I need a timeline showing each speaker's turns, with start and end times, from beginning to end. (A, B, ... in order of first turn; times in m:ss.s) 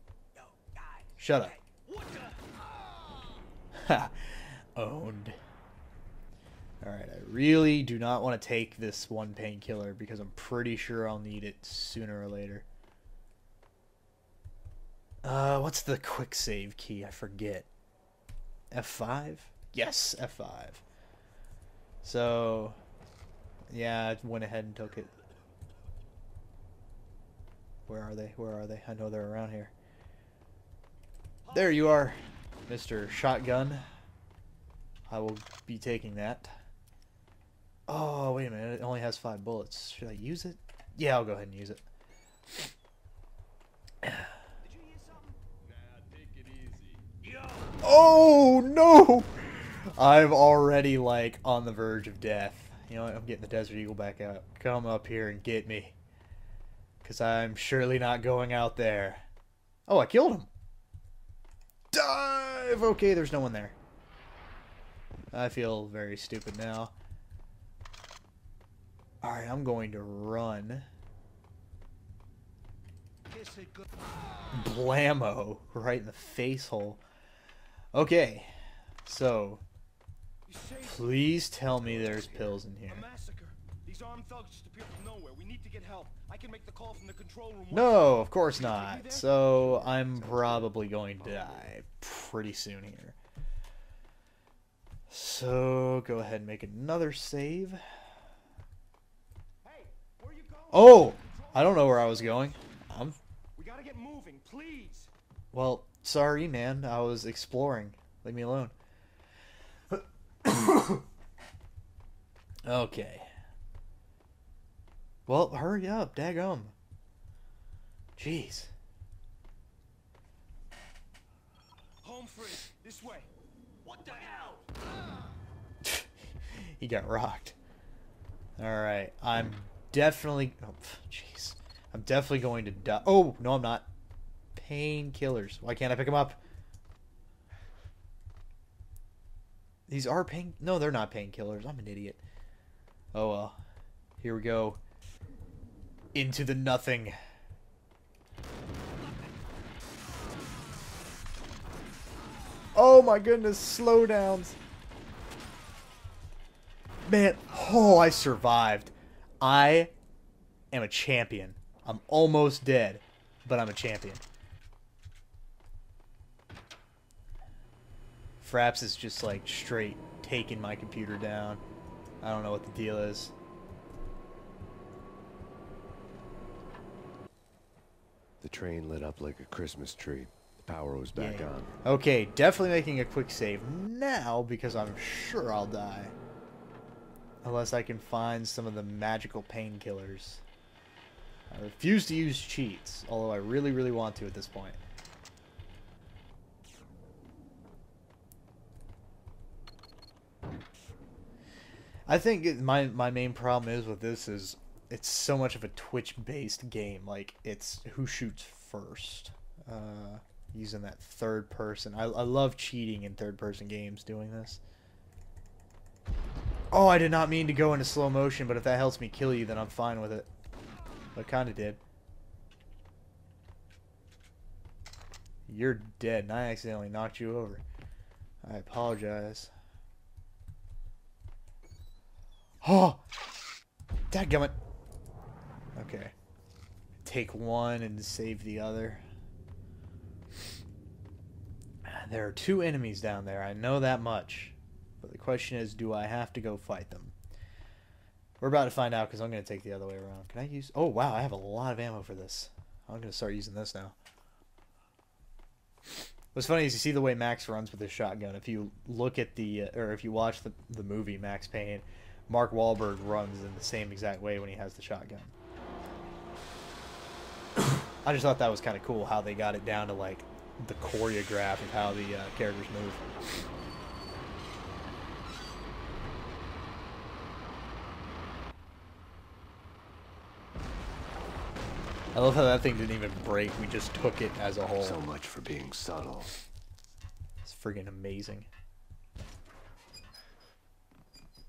0:00.4-0:03.3 A
0:01.2-0:01.6 B
0:03.7-0:05.4 B
0:06.8-0:12.6 B
0:15.2-0:17.7 B
0:18.7-0:20.8 B
0:22.0-0:22.8 B
0:23.7-0:25.1 B
0:27.9-0:29.7 B
0:31.5-0:33.8 B
0:35.1-0:36.6 B
0:37.9-0:41.8 B
0:44.6-0:47.8 A
0:47.8-0:56.0 B
0:57.0-0:59.2 B
0:59.9-1:00.5 B
1:01.9-1:03.8 B
1:05.3-1:06.9 B
1:09.2-1:10.9 B
1:13.3-1:13.8 A
1:14.5-1:17.0 B
1:17.9-1:18.5 B
1:19.0-1:19.6 B
1:20.5-1:21.0 A
1:20.8-1:23.0 B
1:21.8-1:22.6 C
1:22.9-1:29.3 A
1:27.7-1:33.2 B
1:29.7-1:30.7 C
1:35.1-1:37.8 B
1:39.6-1:42.5 A
1:40.7-1:43.2 B
1:43.6-1:45.1 A
1:45.5-1:48.7 B
1:50.4-1:51.0 B
1:52.6-1:53.3 B
1:55.2-1:56.7 B
1:58.2-1:58.7 B
2:02.0-2:03.3 A
2:03.8-2:04.8 A
2:05.8-2:07.6 B
2:08.6-2:13.9 B
2:14.5-2:16.4 B
2:19.9-2:22.2 B
2:23.1-2:23.6 B
2:24.2-2:24.8 B
2:26.1-2:27.2 B
2:32.7-2:34.6 B
2:37.0-2:39.9 B
2:40.7-2:44.2 B
2:48.4-2:51.6 B
2:52.2-2:53.3 B
2:58.4-3:01.7 C
3:01.2-3:06.1 B
3:07.4-3:10.4 B
3:11.5-3:14.8 B
3:22.1-3:34.6 B
3:36.7-3:40.3 B
3:41.1-3:41.8 B
3:45.5-3:47.6 B
3:48.4-3:49.5 B
3:52.6-3:53.0 B
3:54.1-3:54.6 B
3:55.8-3:56.1 B
3:57.0-3:59.0 B
4:01.8-4:07.2 B
4:08.4-4:14.0 B
4:16.3-4:25.3 B
4:28.0-4:33.0 B
4:42.1-4:45.0 B
4:44.8-4:46.3 C
4:47.4-4:48.5 B